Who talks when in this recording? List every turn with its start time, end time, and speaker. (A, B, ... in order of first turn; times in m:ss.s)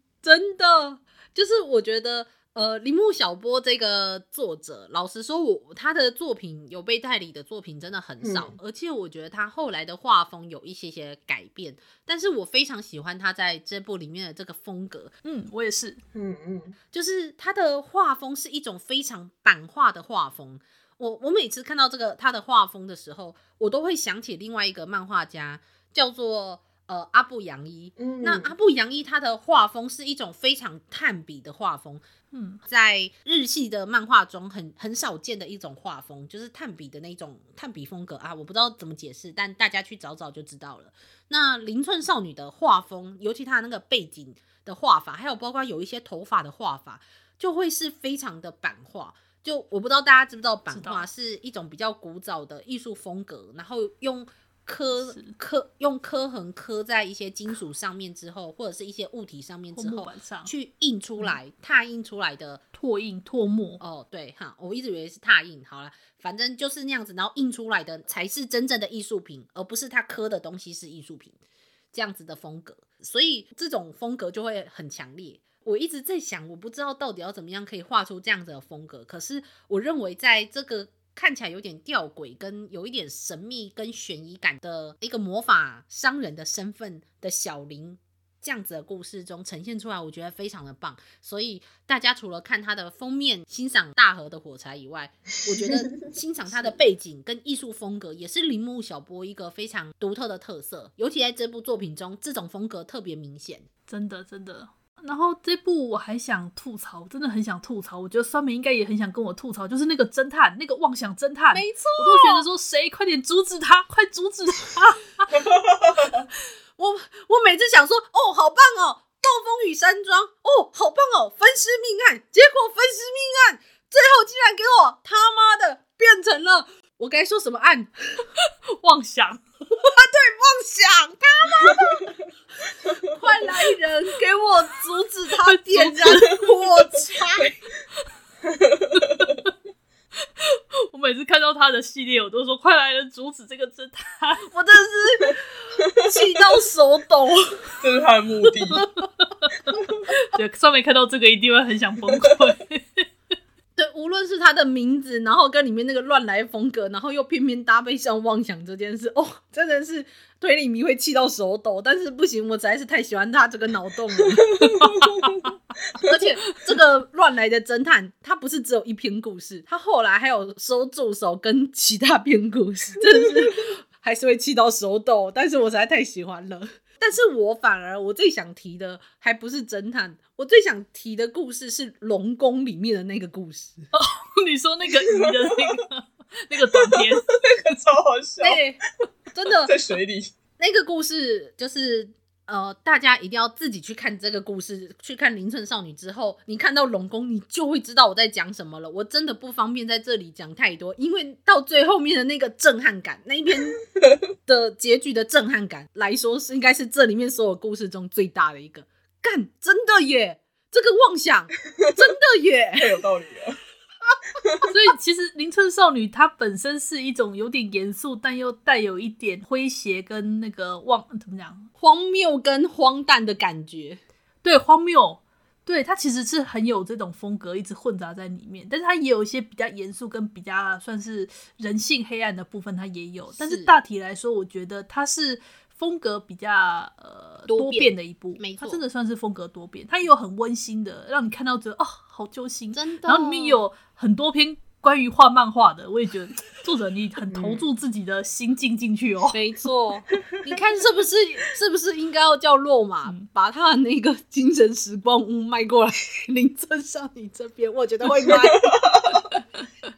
0:00.2-0:15.1 A
0:08.2-0:08.6 B
0:15.2-0:16.0 C
0:16.1-0:16.8 B
0:16.9-0:32.0 A
0:28.0-0:28.5 B
0:32.3-0:32.6 C
0:32.6-1:02.6 A
0:50.7-0:51.1 C
0:55.0-0:55.4 C
0:59.7-1:00.5 C
1:02.7-1:03.8 C
1:03.8-1:11.4 A
1:11.9-1:43.6 A
1:43.9-1:55.3 C
1:51.5-1:52.4 A
1:56.8-2:08.2 A
2:08.8-2:09.4 C
2:09.8-2:12.1 A
2:13.1-2:17.6 A
2:15.4-2:16.4 C
2:18.5-2:19.2 B
2:20.4-2:24.5 C
2:24.5-2:27.7 A
2:27.8-2:28.9 B
2:28.7-2:29.5 C
2:30.1-2:33.1 C
2:33.8-2:44.7 A
2:44.8-2:45.4 C
2:46.0-3:03.9 A
3:03.9-3:07.3 C
3:06.9-3:08.6 B
3:08.4-3:08.8 A
3:09.3-3:09.8 A
3:09.6-3:10.4 B
3:10.6-3:23.8 A
3:24.5-3:32.9 A
3:32.8-3:33.6 B
3:34.7-3:41.7 C
3:41.8-3:44.0 A
3:44.4-4:09.4 C
3:53.3-3:53.7 A
3:57.5-3:58.8 A
4:02.7-4:03.6 A
4:07.3-4:07.6 B
4:09.3-4:18.8 A